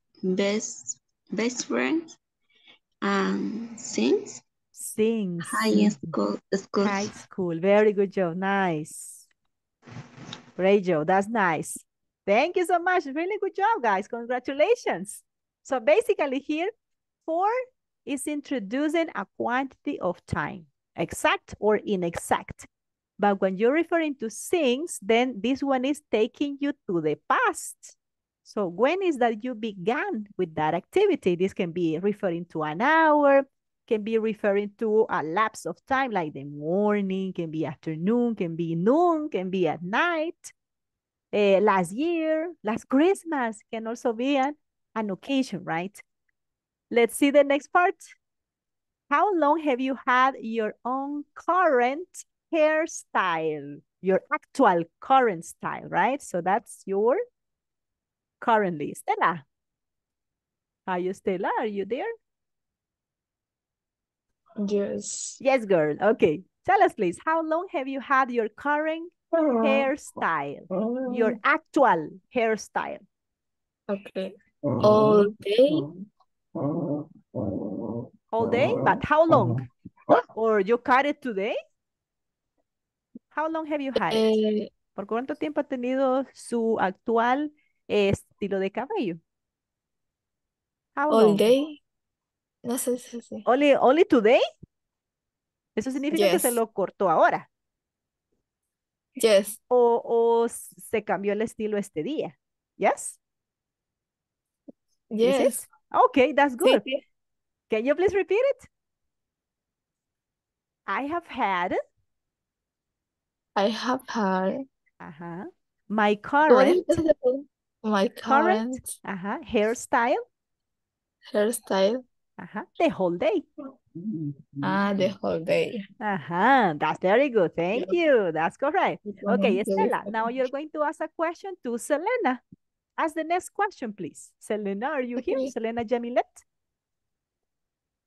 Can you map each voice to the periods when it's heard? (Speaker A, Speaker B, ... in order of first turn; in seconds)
Speaker A: 0.2-2.1, 3.0-4.4, 5.5-7.1
Speaker B: 4.8-5.9, 6.8-9.3, 10.6-16.7, 17.2-17.5, 18.1-22.7, 23.2-40.5, 41.3-46.0, 46.9-48.1, 49.1-57.2, 58.4-59.4, 60.9-62.1, 65.4-73.0, 78.3-79.7, 80.3-81.6, 83.3-84.4, 84.9-89.2, 91.0-91.5, 93.5-94.4, 95.8-97.5, 99.7-103.2, 105.2-106.8, 107.7-108.7, 110.9-111.8, 115.0-117.0, 118.2-120.2, 122.4-123.4, 126.0-132.4, 133.0-136.4
Speaker C: 64.6-65.4, 69.3-69.9, 70.7-71.3, 73.9-74.3, 74.8-75.9, 77.4-77.9, 84.0-84.7, 91.1-91.8, 92.6-93.4, 96.1-96.6, 99.2-99.6, 105.1-105.6, 106.6-107.0, 113.5-114.6, 116.5-119.0, 121.3-122.0, 124.6-125.8, 129.2-130.1, 135.2-135.5